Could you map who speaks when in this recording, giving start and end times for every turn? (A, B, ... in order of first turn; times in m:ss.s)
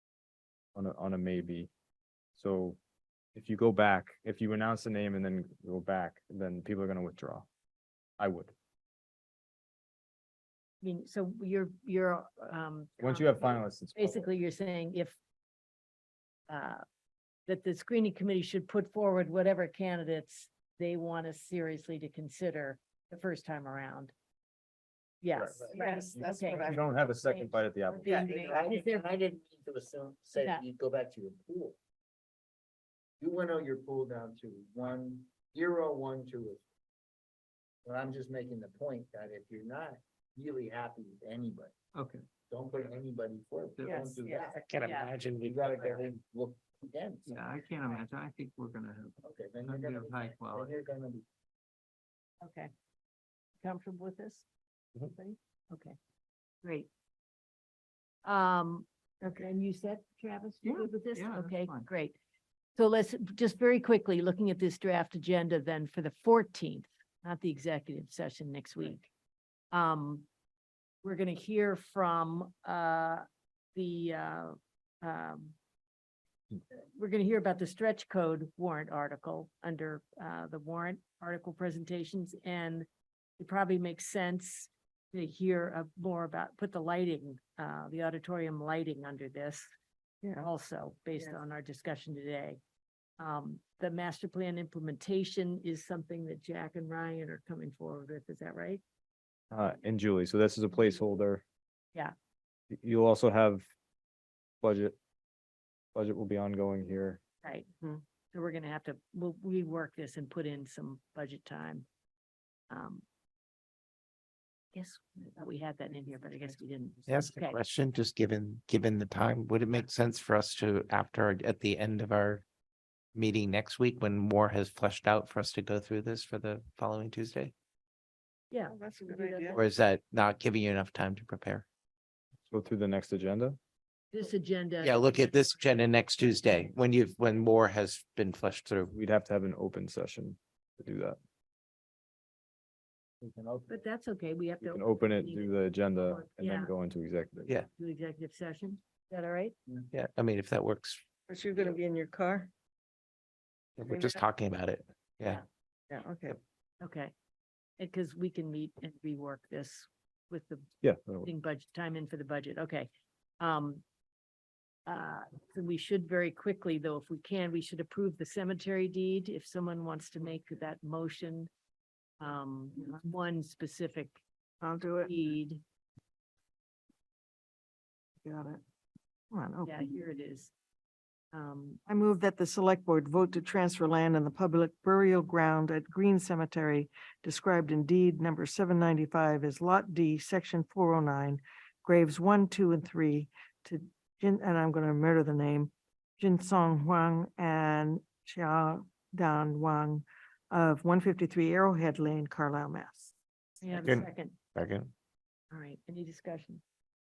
0:00.8-0:01.7 A
0:02.4-0:02.8 A
0:03.4-0:07.5 A
0:08.2-0:08.5 A
0:10.8-0:15.2 B
0:13.0-0:14.3 A
0:16.5-0:16.8 B
0:17.4-0:24.1 B
0:25.2-0:26.6 B
0:25.3-0:25.6 A
0:25.6-0:26.6 C
0:25.7-0:26.8 D
0:26.6-0:28.1 A
0:27.2-0:29.0 B
0:28.0-0:31.8 C
0:28.2-0:28.5 D
0:30.4-0:30.6 B
0:33.2-0:36.6 C
0:37.8-0:41.7 C
0:42.0-0:42.2 E
0:42.5-0:44.7 C
0:43.8-0:44.2 E
0:44.0-0:45.1 B
0:44.4-0:46.0 F
0:45.4-0:47.4 C
0:47.2-0:50.7 E
0:49.2-0:51.2 C
0:52.4-0:52.7 B
0:53.6-0:54.4 B
0:55.1-0:56.0 B
0:56.6-0:56.9 B
0:58.2-0:58.9 B
0:59.2-0:59.5 D
0:59.4-1:02.1 B
1:00.6-1:01.9 E
1:02.8-1:09.1 B
1:09.7-1:10.3 B
1:11.0-1:15.6 B
1:16.8-1:22.9 B
1:23.4-1:29.7 B
1:30.2-1:30.5 D
1:30.4-1:32.6 B
1:33.2-1:38.8 B
1:39.5-1:41.4 A
1:42.7-1:43.7 A
1:44.6-1:45.0 A
1:45.9-1:47.2 A
1:47.4-1:47.7 B
1:48.3-1:51.9 B
1:52.7-1:53.0 B
1:54.7-1:57.6 B
1:55.8-1:56.5 D
1:57.1-2:02.4 F
2:03.1-2:07.5 F
2:08.5-2:09.5 B
2:08.7-2:09.6 D
2:09.5-2:11.7 F
2:12.5-2:13.6 A
2:14.1-2:16.4 B
2:14.8-2:18.9 F
2:18.9-2:21.2 A
2:23.2-2:23.8 C
2:23.7-2:26.7 B
2:24.6-2:27.5 A
2:27.7-2:29.5 B
2:29.9-2:31.0 F
2:31.3-2:32.5 D
2:33.8-2:35.4 F
2:33.9-2:34.2 D
2:35.9-2:36.4 D
2:36.8-2:37.1 B
2:37.8-2:40.7 B
2:40.8-2:41.3 A
2:41.2-2:42.9 B
2:43.4-2:43.8 B
2:44.8-2:51.5 B
2:52.2-2:54.2 B
2:54.6-2:55.1 D
2:55.1-2:55.6 B
2:58.2-2:58.6 D
2:59.3-2:59.9 D
2:59.6-3:00.5 B
3:01.3-3:01.8 B
3:01.8-3:23.1 D
3:23.6-3:24.4 B
3:23.7-3:24.9 F
3:25.5-3:26.6 B